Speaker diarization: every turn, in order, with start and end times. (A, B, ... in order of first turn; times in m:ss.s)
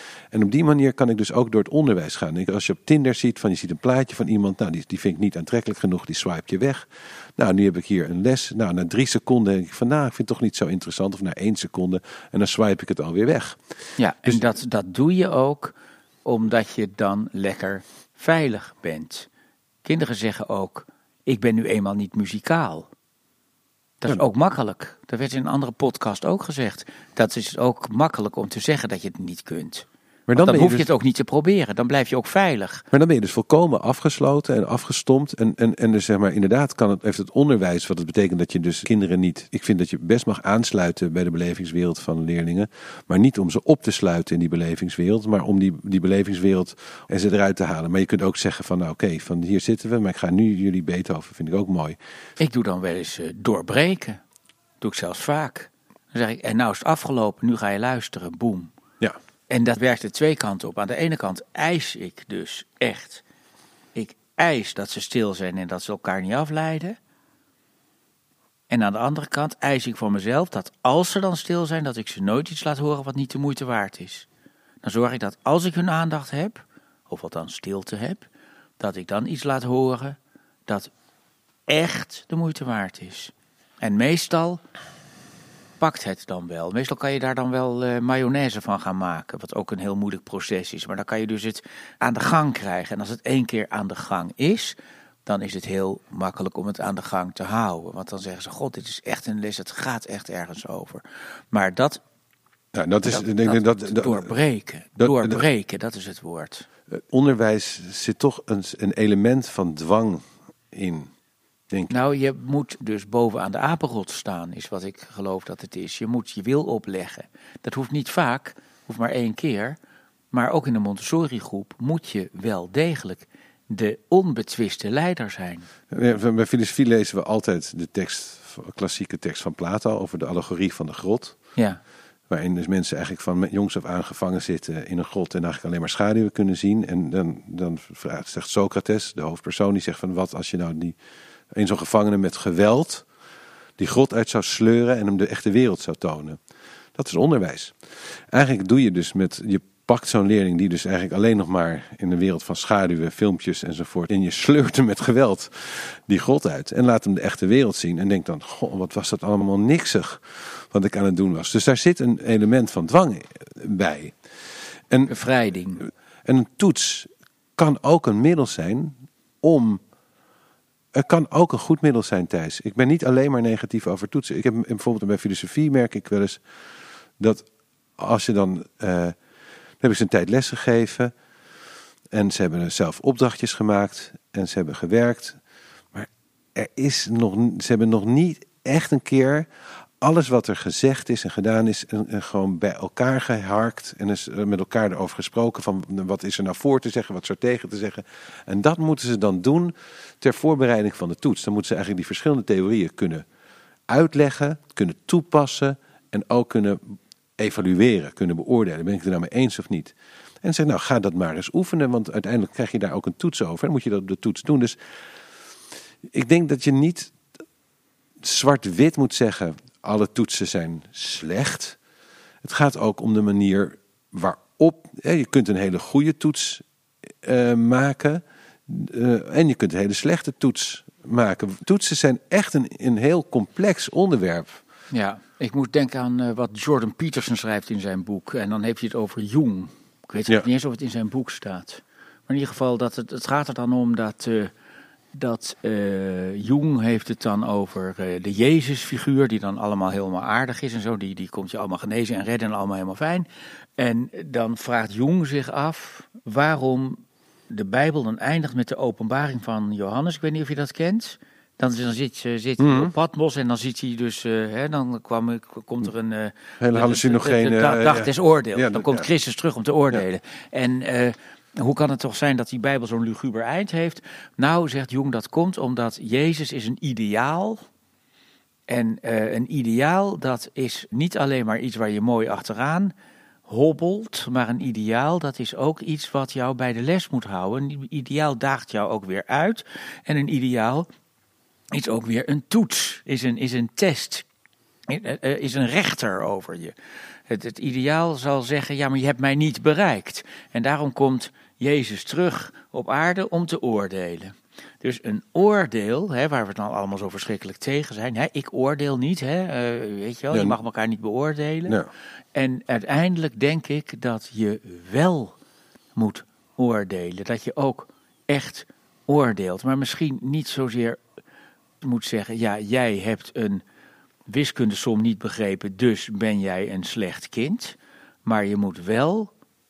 0:00.3-0:14.4 A
0:14.0-0:19.3 B
0:19.8-0:22.9 B
0:24.0-0:32.8 B
0:30.3-0:30.9 A
0:32.9-0:52.0 A
0:52.4-0:54.2 B
0:54.8-0:58.7 B
0:59.5-1:03.2 B
1:03.9-1:07.0 B
1:08.7-1:14.3 B
1:14.8-1:18.2 B
1:18.8-1:20.9 B
1:21.7-1:24.6 B
1:25.8-1:42.0 B
1:42.7-1:44.3 A
1:43.0-1:46.7 B
1:45.0-1:45.4 A
1:46.9-1:51.1 A
1:51.9-1:59.8 B
2:00.3-2:05.7 B
2:05.9-2:11.4 A
2:11.6-2:11.8 B
2:12.3-2:21.0 A
2:21.5-2:23.0 A
2:23.8-2:26.4 A
2:26.9-2:27.7 A
2:28.3-2:44.2 A
2:45.1-2:45.8 B
2:46.2-2:49.8 A
2:50.9-2:56.4 A
2:57.2-2:57.5 A
2:58.0-2:59.2 A
2:59.8-3:01.1 A
3:02.1-3:05.4 A
3:05.9-3:09.5 A
3:10.0-3:23.2 A
3:23.9-3:34.8 A
3:36.1-3:37.2 A
3:38.2-3:41.8 A
3:42.4-3:54.6 A
3:54.9-4:04.5 B
4:05.1-4:13.3 B
4:13.8-4:37.6 B
4:22.6-4:22.9 A
4:26.6-4:29.1 A
4:38.7-4:42.9 B
4:43.5-4:50.9 B
4:51.7-4:54.2 B
4:54.9-4:56.7 B
4:57.3-5:11.8 B
5:12.3-5:15.4 B
5:15.9-5:21.0 B
5:21.8-5:23.6 B
5:24.3-5:29.3 B